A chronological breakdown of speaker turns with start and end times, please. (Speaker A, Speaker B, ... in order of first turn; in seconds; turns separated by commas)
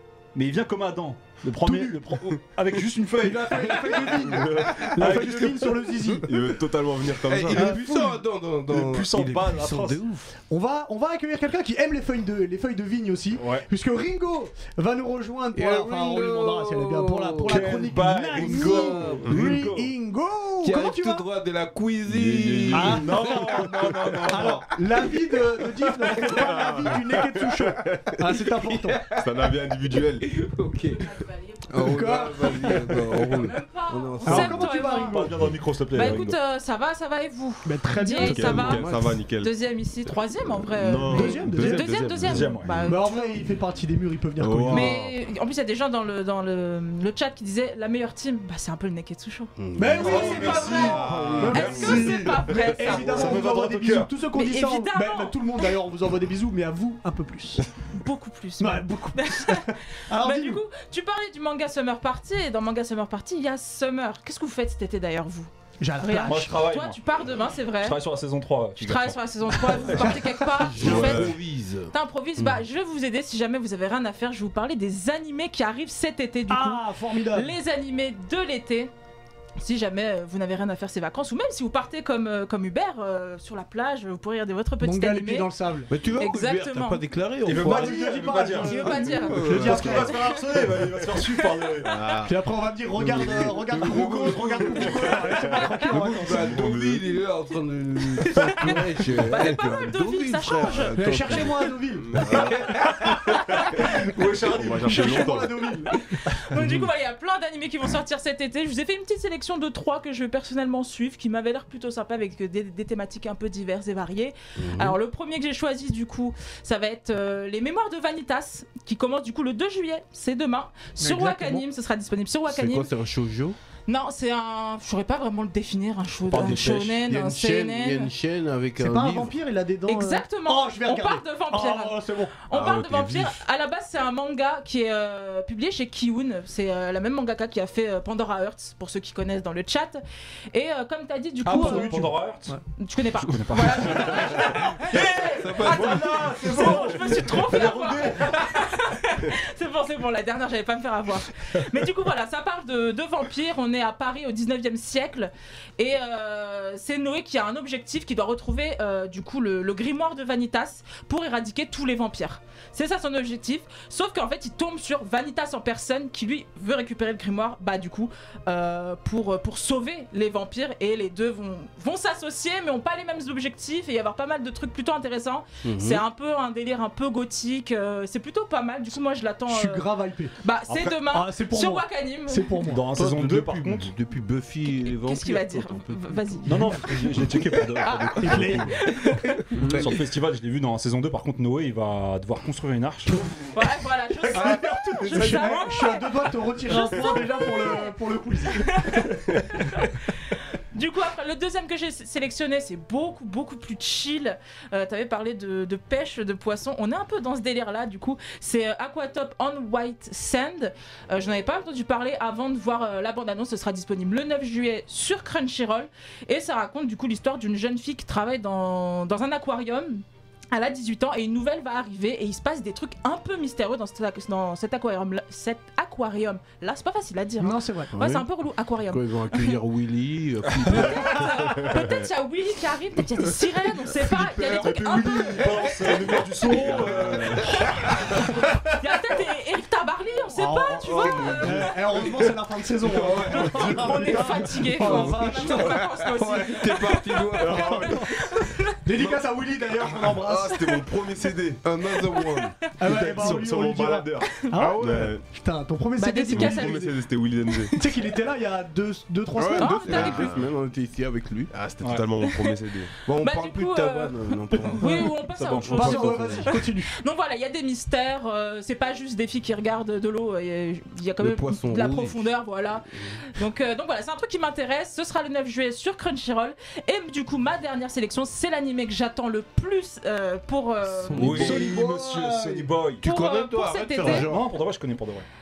Speaker A: 0.3-5.8, Speaker B: 1.6-2.2, Speaker B: 3.2-6.3, Speaker C: 4.1-5.3, Speaker C: 6.2-7.8, Speaker D: 7.2-10.3, Speaker B: 7.5-8.2, Speaker A: 7.6-8.0, Speaker A: 8.7-10.0, Speaker B: 10.5-21.2, Speaker A: 13.3-13.7, Speaker D: 15.6-17.8, Speaker A: 17.5-19.9, Speaker D: 18.4-19.4, Speaker D: 20.6-24.3, Speaker C: 22.1-23.4, Speaker B: 22.7-23.4, Speaker A: 22.8-24.7, Speaker B: 24.3-29.0, Speaker C: 26.0-28.1, Speaker D: 28.6-31.2, Speaker C: 29.1-30.3, Speaker E: 30.8-32.5, Speaker D: 31.7-34.7, Speaker B: 31.8-32.9, Speaker E: 33.2-35.3, Speaker B: 34.2-35.3, Speaker A: 35.1-36.4, Speaker E: 35.9-43.4, Speaker B: 37.6-38.8, Speaker C: 38.2-39.5, Speaker D: 38.4-39.2, Speaker C: 40.8-42.8, Speaker B: 41.1-41.9, Speaker A: 42.2-42.8, Speaker B: 42.8-45.0, Speaker C: 44.4-45.2, Speaker E: 44.7-53.5, Speaker D: 49.6-52.0, Speaker B: 49.8-57.6, Speaker A: 50.0-54.1, Speaker C: 50.4-52.2, Speaker E: 54.3-55.8, Speaker E: 57.9-68.0, Speaker B: 58.6-60.6, Speaker B: 65.8-66.5, Speaker A: 66.2-67.0, Speaker A: 67.8-70.3, Speaker E: 68.8-71.4, Speaker D: 70.6-72.6, Speaker C: 70.8-71.3, Speaker E: 71.9-78.9, Speaker B: 76.5-77.5, Speaker E: 79.6-85.5, Speaker B: 84.8-85.9, Speaker D: 85.9-88.2, Speaker E: 86.2-87.0, Speaker A: 87.5-91.9, Speaker B: 87.6-90.2, Speaker E: 88.6-90.4, Speaker D: 88.8-90.1, Speaker C: 91.8-92.3, Speaker B: 92.2-96.6, Speaker D: 93.0-95.1, Speaker A: 93.9-94.5, Speaker C: 94.8-95.1, Speaker E: 95.2-96.2, Speaker D: 95.9-102.8, Speaker C: 96.2-97.2, Speaker E: 98.3-101.5, Speaker B: 101.0-102.1, Speaker C: 102.0-105.7, Speaker A: 102.7-105.4, Speaker B: 104.8-106.0, Speaker E: 106.3-122.9, Speaker D: 106.6-106.8, Speaker D: 114.6-115.0, Speaker B: 121.0-121.6, Speaker D: 122.5-123.6, Speaker E: 123.9-128.1, Speaker A: 126.3-127.0, Speaker D: 126.4-129.3, Speaker B: 128.8-132.3, Speaker E: 129.9-140.0, Speaker C: 132.5-133.4, Speaker E: 140.5-142.1, Speaker B: 141.4-142.6, Speaker A: 141.5-142.5, Speaker E: 142.8-179.9, Speaker A: 143.2-148.5, Speaker D: 144.4-146.7, Speaker D: 175.6-176.0, Speaker B: 179.5-180.3, Speaker E: 180.4-182.6, Speaker A: 180.7-181.0, Speaker B: 181.1-182.8, Speaker A: 182.7-183.9, Speaker D: 182.9-186.4, Speaker E: 184.7-187.0, Speaker A: 186.5-189.0, Speaker E: 187.8-189.5, Speaker B: 188.2-188.9, Speaker D: 189.5-189.9, Speaker A: 189.7-193.3, Speaker E: 193.5-229.6, Speaker A: 194.3-195.7, Speaker B: 194.3-198.9, Speaker B: 227.4-227.9, Speaker D: 227.9-228.3, Speaker D: 228.9-231.6, Speaker A: 230.7-230.9, Speaker E: 230.7-235.9, Speaker C: 231.6-231.9, Speaker D: 233.9-237.5, Speaker A: 234.6-237.7, Speaker C: 236.6-237.9, Speaker E: 238.5-241.7, Speaker B: 240.3-246.6, Speaker C: 241.1-242.2, Speaker D: 242.8-247.9, Speaker C: 243.0-244.1, Speaker E: 243.3-248.8, Speaker C: 247.3-248.3, Speaker B: 248.8-250.6, Speaker C: 249.8-251.7, Speaker D: 251.6-252.6, Speaker E: 252.2-252.5, Speaker B: 252.8-256.8, Speaker C: 252.8-255.2, Speaker E: 254.2-254.5, Speaker D: 254.6-255.1, Speaker E: 256.0-257.0, Speaker C: 256.3-257.8, Speaker B: 257.7-260.3, Speaker D: 259.4-261.5, Speaker E: 259.6-260.3, Speaker C: 259.9-260.4, Speaker C: 261.5-262.9, Speaker A: 261.8-262.1, Speaker E: 262.3-262.6, Speaker D: 263.1-265.1, Speaker E: 263.2-281.6, Speaker B: 264.8-265.1, Speaker A: 265.3-266.4, Speaker B: 265.7-266.9, Speaker D: 271.2-272.3, Speaker D: 280.8-281.8, Speaker A: 281.2-283.1, Speaker B: 281.3-282.7, Speaker E: 283.0-284.3, Speaker D: 283.0-284.4, Speaker A: 284.0-285.3